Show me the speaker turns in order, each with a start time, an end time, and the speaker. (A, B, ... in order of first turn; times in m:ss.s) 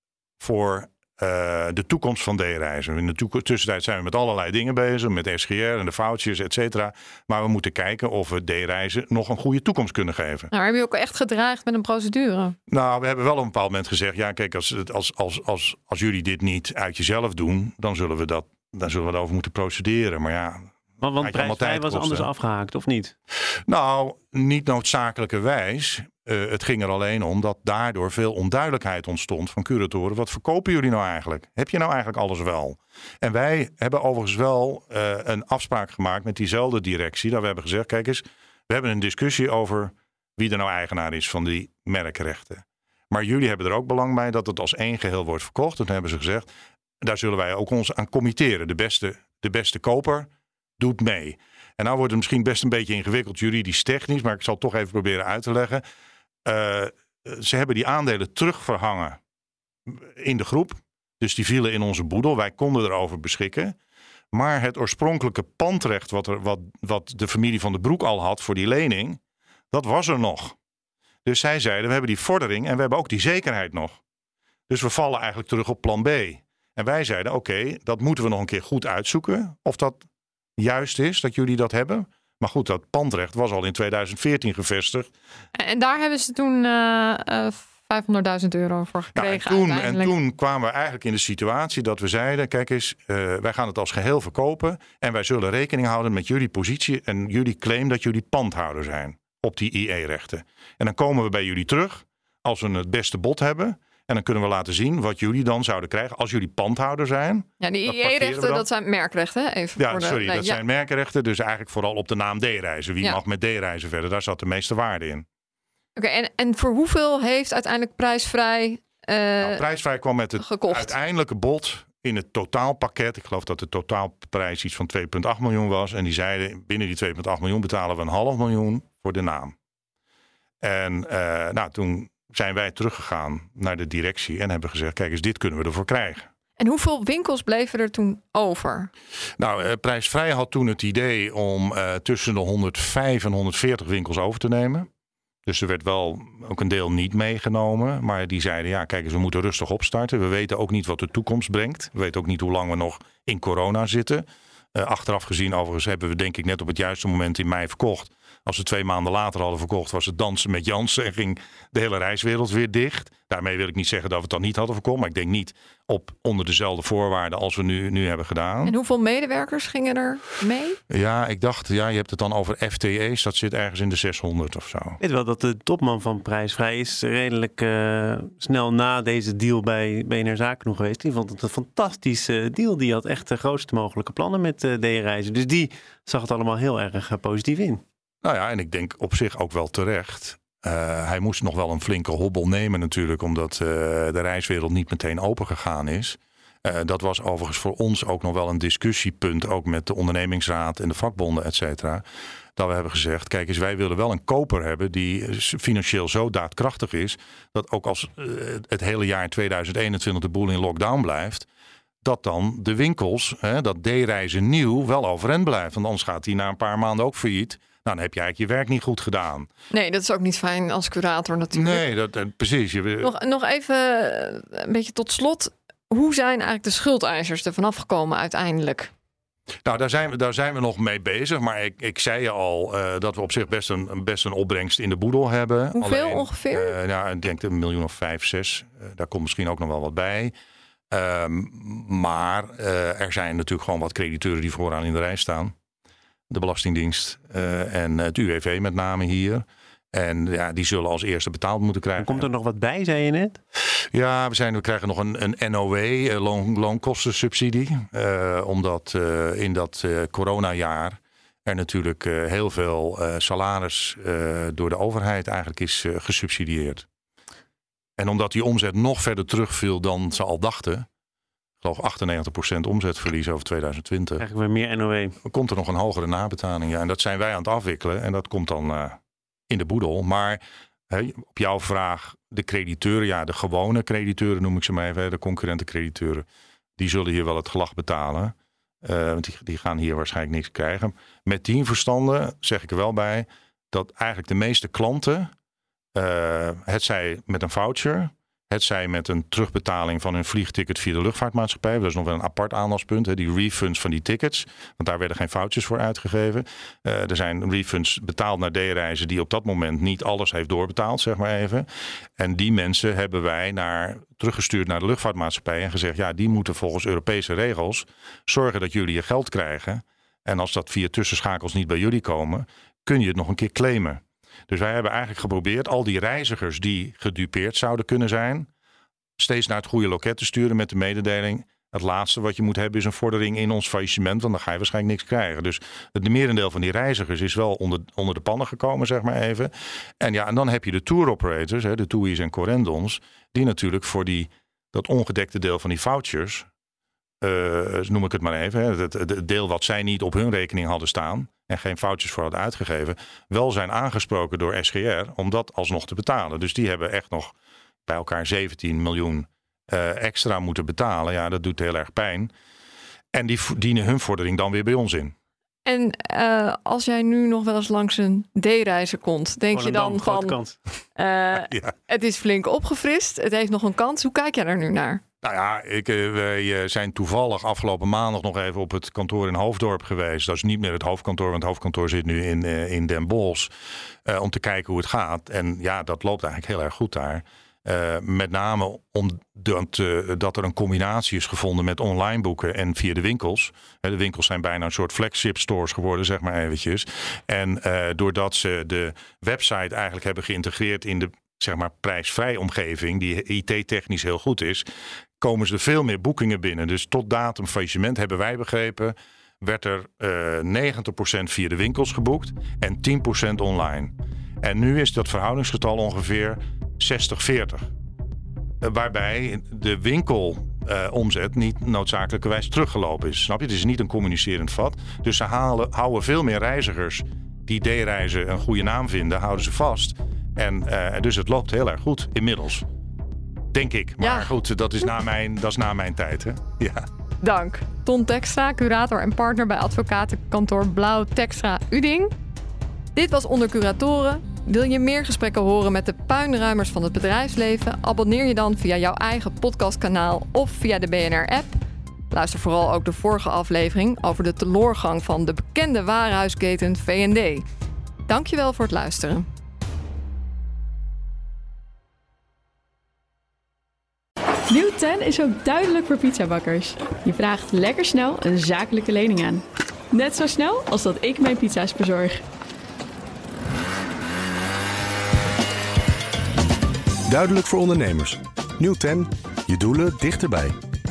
0:00.4-0:10.5 A
0:10.5-0:12.6 B
0:12.7-0:20.7 A
0:21.0-0:23.2 C
0:21.2-0:22.3 A
0:23.7-0:46.5 A
0:47.0-0:55.8 A
0:56.4-0:59.2 A
0:59.9-1:03.8 A
1:04.3-1:09.2 A
1:09.7-1:10.6 A
1:11.2-1:14.0 A
1:14.7-1:20.0 A
1:20.6-1:25.1 A
1:25.6-1:30.1 B
1:29.2-1:48.7 A
1:47.6-1:50.6 B
1:49.8-1:55.3 A
1:56.0-1:59.6 B
1:59.4-2:09.6 A
2:00.4-2:01.0 B
2:10.6-2:16.3 A
2:16.6-2:18.9 B
2:19.4-2:24.9 A
2:25.5-2:48.8 A
2:48.6-2:50.8 B
2:50.9-2:55.0 A
2:55.0-3:07.8 C
3:08.2-3:22.0 A
3:22.6-3:31.5 A
3:32.0-3:39.5 A
3:39.7-3:41.8 B
3:41.6-3:43.1 A
3:43.0-3:48.9 B
3:49.6-4:00.3 A
3:55.8-3:56.8 B
4:00.9-4:05.5 A
4:06.3-4:12.3 A
4:12.0-4:13.4 C
4:13.9-4:26.9 A
4:28.0-4:30.9 A
4:31.6-4:34.2 A
4:34.2-4:35.2 C
4:35.2-4:39.0 A
4:39.5-4:46.2 A
4:46.8-4:55.3 A
4:56.0-5:11.7 A
5:12.2-5:28.5 A
5:29.2-5:46.5 A
5:47.2-5:57.3 A
5:57.9-6:02.3 A
6:03.1-6:05.1 A
6:05.6-6:10.4 B
6:09.5-6:10.6 C
6:11.0-6:15.0 B
6:15.2-6:23.5 A
6:24.1-6:44.7 A
6:45.2-6:57.7 A
6:58.6-7:12.7 A
7:13.5-7:16.9 A
7:14.0-7:14.3 B
7:17.2-7:22.2 B
7:23.0-7:31.6 B
7:32.1-7:37.4 B
7:38.1-7:39.3 B
7:44.5-7:52.2 D
7:57.1-8:00.6 E